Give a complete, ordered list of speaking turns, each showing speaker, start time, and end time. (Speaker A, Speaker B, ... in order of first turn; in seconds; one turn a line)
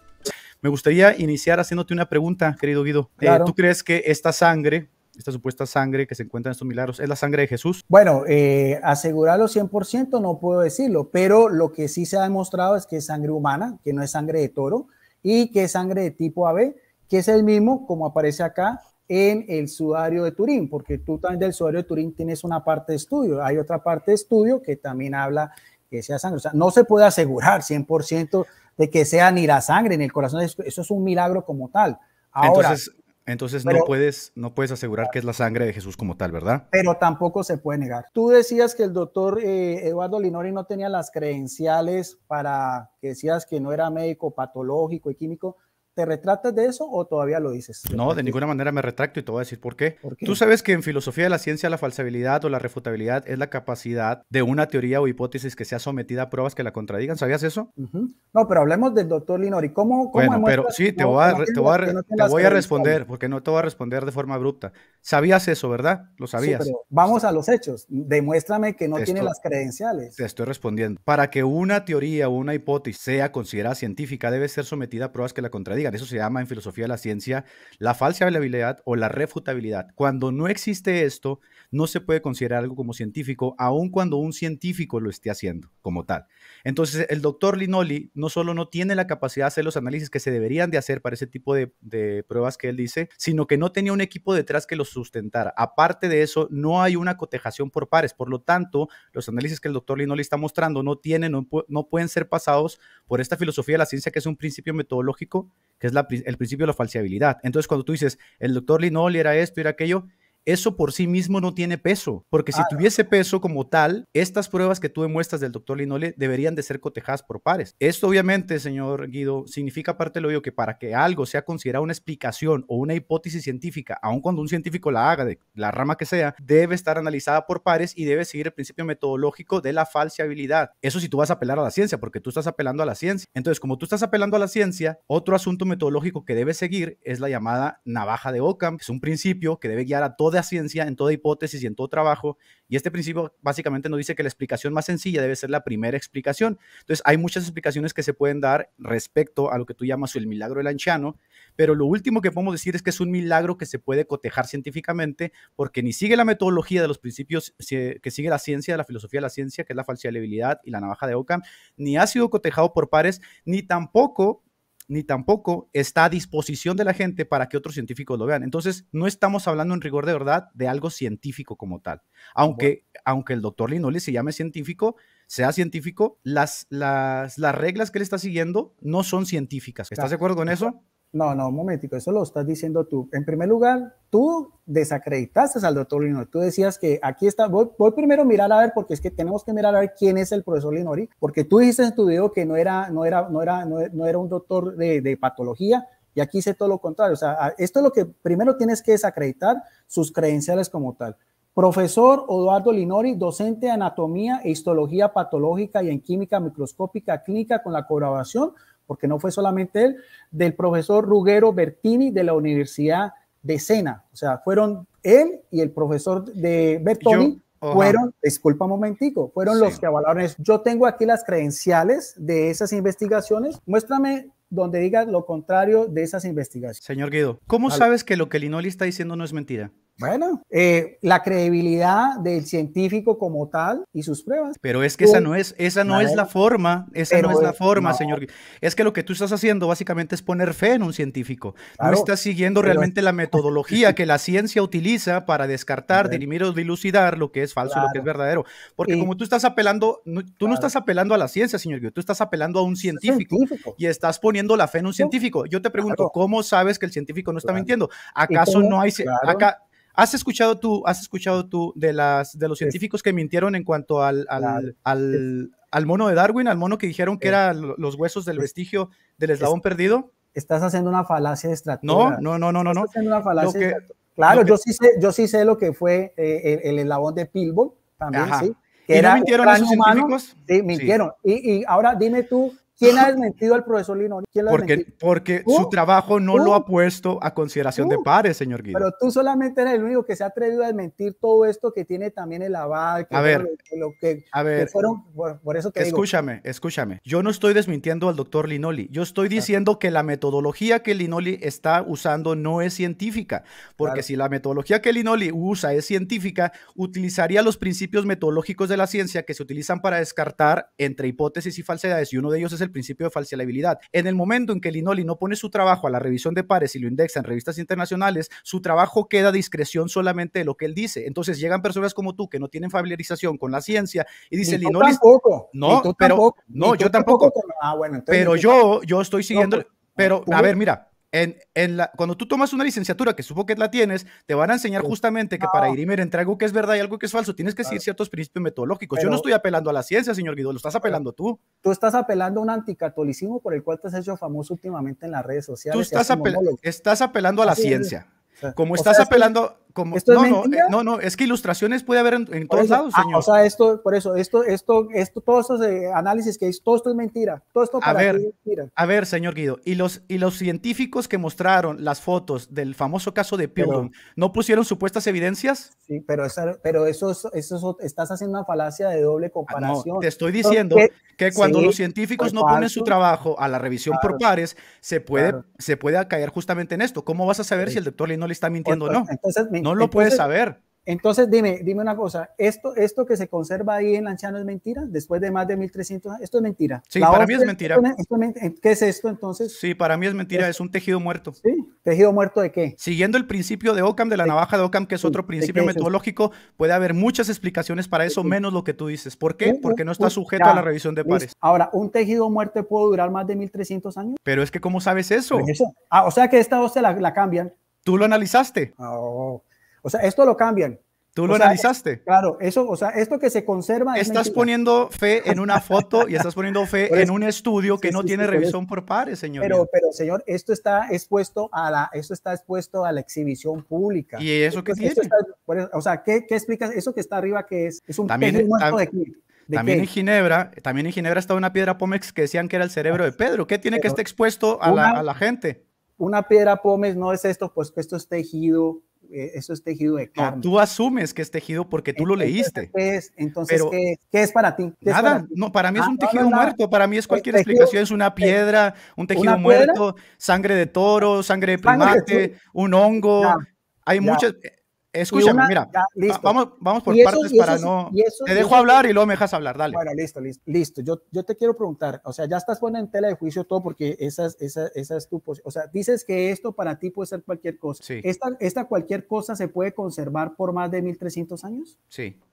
Speaker A: 0.6-7.8
Speaker B: 3.2-3.5
Speaker B: 7.9-32.8
Speaker A: 32.4-36.6
Speaker B: 33.6-33.9
Speaker B: 36.7-48.4
Speaker A: 47.9-57.7
Speaker B: 50.0-50.4
Speaker B: 57.8-63.0
Speaker A: 60.1-66.7
Speaker B: 66.4-70.2
Speaker A: 69.0-69.3
Speaker A: 70.2-180.8
Speaker B: 112.5-112.9
Speaker B: 179.9-226.8
Speaker A: 217.0-218.0
Speaker A: 219.5-219.8
Speaker A: 226.8-229.7
Speaker B: 230.0-235.3
Speaker A: 234.6-270.1
Speaker B: 235.9-236.2
Speaker B: 237.1-238.2
Speaker B: 241.8-242.1
Speaker B: 242.6-243.9
Speaker B: 245.9-246.2
Speaker B: 247.6-248.0
Speaker B: 252.9-253.8
Speaker B: 255.8-256.1
Speaker B: 258.3-259.5
Speaker B: 264.4-265.2
Speaker B: 270.3-284.9
Speaker A: 271.8-274.6
Speaker A: 278.1-280.9
Speaker A: 284.5-288.9
Speaker B: 285.4-285.7
Speaker B: 286.3-286.6
Speaker B: 287.8-288.1
Speaker B: 288.7-296.0
Speaker A: 293.1-293.5
Speaker A: 294.3-294.7
Speaker A: 295.8-325.0
Speaker B: 324.4-328.5
Speaker A: 325.5-327.3
Speaker A: 328.1-341.4
Speaker B: 329.3-330.5
Speaker B: 334.8-335.8
Speaker B: 338.9-339.2
Speaker B: 341.6-346.6
Speaker A: 345.7-353.3
Speaker B: 347.4-349.3
Speaker B: 349.9-350.7
Speaker B: 352.5-358.7
Speaker A: 357.8-358.2
Speaker A: 358.8-365.7
Speaker B: 363.6-363.9
Speaker B: 365.9-372.9
Speaker A: 369.5-379.1
Speaker B: 373.9-374.2
Speaker B: 375.1-375.4
Speaker B: 378.6-380.2
Speaker A: 379.6-380.6
Speaker B: 380.9-389.5
Speaker A: 386.9-387.8
Speaker A: 389.5-391.4
Speaker B: 391.4-392.8
Speaker A: 392.8-401.3
Speaker B: 395.0-395.9
Speaker B: 398.1-398.3
Speaker B: 399.4-404.2
Speaker A: 404.2-405.5
Speaker B: 405.3-407.5
Speaker A: 407.8-408.7
Speaker B: 408.8-414.5
Speaker A: 411.1-412.0
Speaker A: 413.9-419.6
Speaker B: 415.3-416.1
Speaker B: 417.8-418.6
Speaker B: 419.4-429.9
Speaker A: 424.2-425.1
Speaker A: 428.1-428.8
Speaker A: 429.5-435.6
Speaker B: 434.6-435.0
Speaker B: 436.0-440.5
Speaker A: 440.1-442.7
Speaker B: 441.9-446.6
Speaker A: 443.5-443.7
Speaker A: 444.8-459.8
Speaker B: 447.1-448.3
Speaker B: 449.1-449.8
Speaker B: 451.6-452.3
Speaker B: 454.0-454.2
Speaker B: 455.1-456.3
Speaker B: 456.9-458.8
Speaker B: 459.7-471.7
Speaker A: 471.9-472.2